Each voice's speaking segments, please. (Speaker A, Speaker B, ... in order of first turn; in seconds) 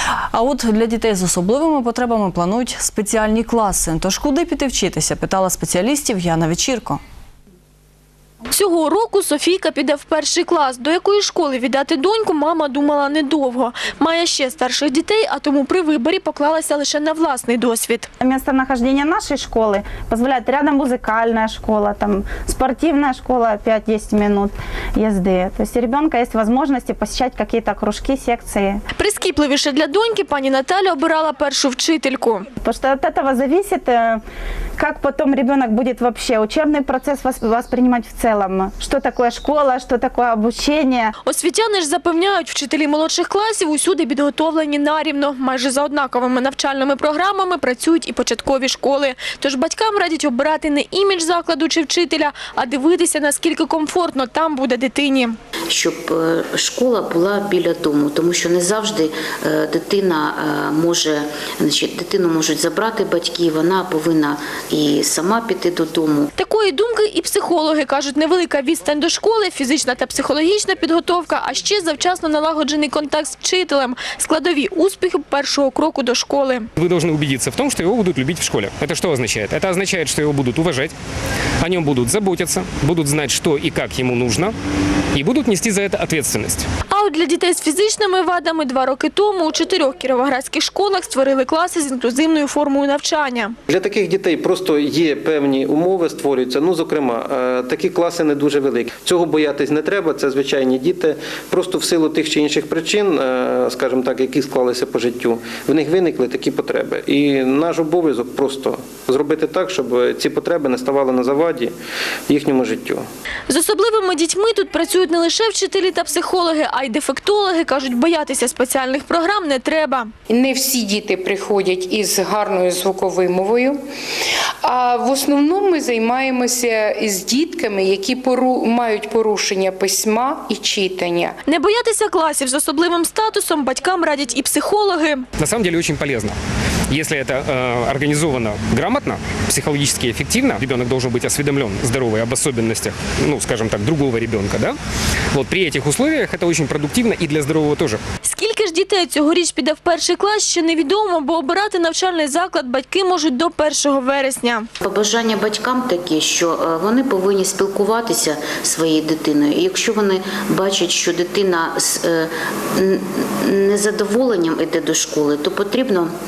Speaker A: 0.3-7.0
Speaker B: 8.5-18.1, 29.0-32.5, 41.2-55.4, 66.4-76.7, 86.9-93.5, 113.5-120.1, 131.5-135.2, 148.2-154.7
Speaker C: 18.2-28.8, 32.6-34.2, 34.8-41.1
Speaker D: 55.7-66.3, 154.8-166.1
Speaker E: 76.8-80.9, 81.6-84.5, 85.1-86.7, 135.4-136.4, 136.9-144.8, 145.3-148.0
Speaker F: 93.7-111.7, 112.3-113.1
Speaker G: 120.3-123.8, 124.6-131.4